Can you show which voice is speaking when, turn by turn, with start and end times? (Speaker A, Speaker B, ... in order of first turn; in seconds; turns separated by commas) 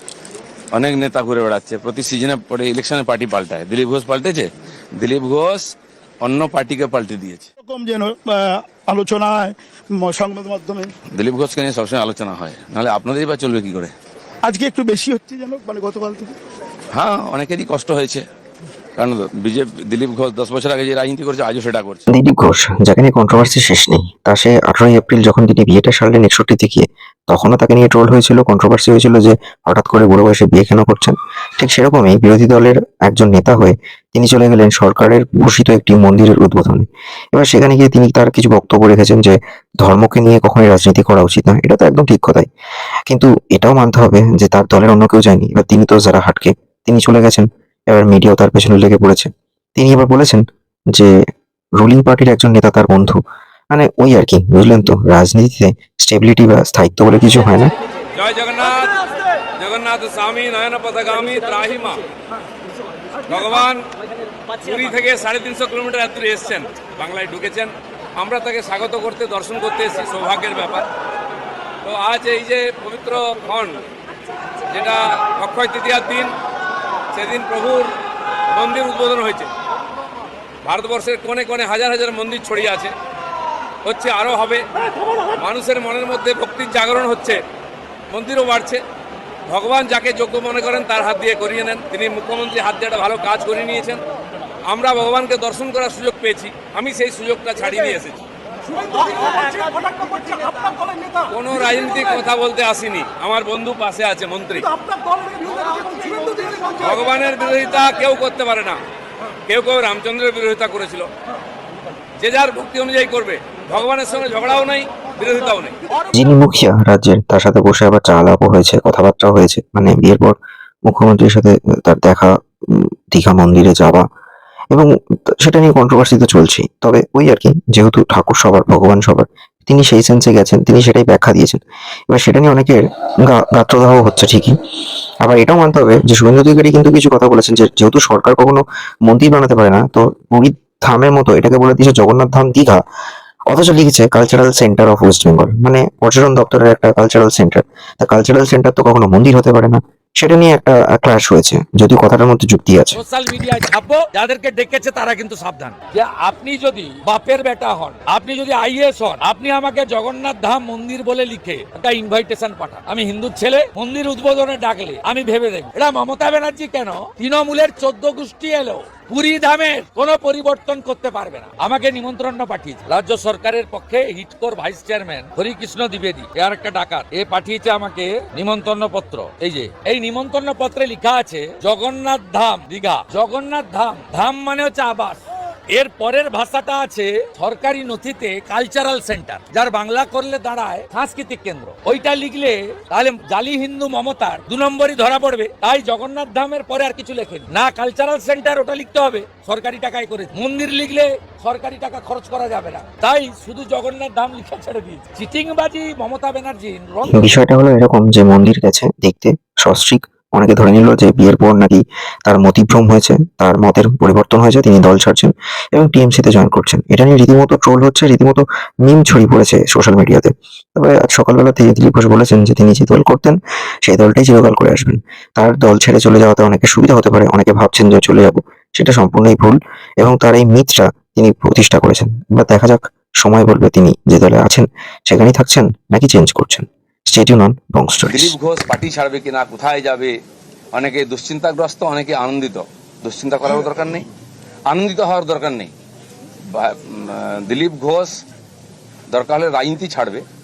Speaker A: 0.7-7.5, Speaker B: 7.6-10.9, Speaker A: 11.1-13.9, Speaker B: 14.4-16.4, Speaker A: 16.9-18.2, Speaker A: 19.0-22.0, Speaker C: 22.1-42.5, Speaker C: 43.1-51.1, Speaker C: 51.8-53.2, Speaker C: 53.7-57.7, Speaker D: 58.1-59.0, Speaker D: 59.6-62.0, Speaker D: 63.3-63.9, Speaker D: 64.6-70.9, Speaker D: 71.8-73.8, Speaker D: 74.7-76.3, Speaker D: 77.1-77.9, Speaker D: 78.5-79.5, Speaker D: 80.7-82.9, Speaker D: 83.8-84.7, Speaker D: 85.3-87.4, Speaker D: 88.1-88.8, Speaker D: 89.5-94.0, Speaker D: 94.7-98.2, Speaker B: 98.8-101.2, Speaker D: 101.3-104.7, Speaker B: 105.3-106.8, Speaker D: 106.8-108.8, Speaker D: 109.5-111.1, Speaker D: 112.2-115.8, Speaker C: 116.1-124.0, Speaker C: 124.7-134.6, Speaker C: 135.2-142.8, Speaker C: 143.5-153.0, Speaker E: 152.9-207.4, Speaker C: 207.1-238.3, Speaker A: 238.1-240.1, Speaker A: 240.7-244.1, Speaker A: 244.7-245.7, Speaker A: 246.6-248.1, Speaker A: 249.1-250.2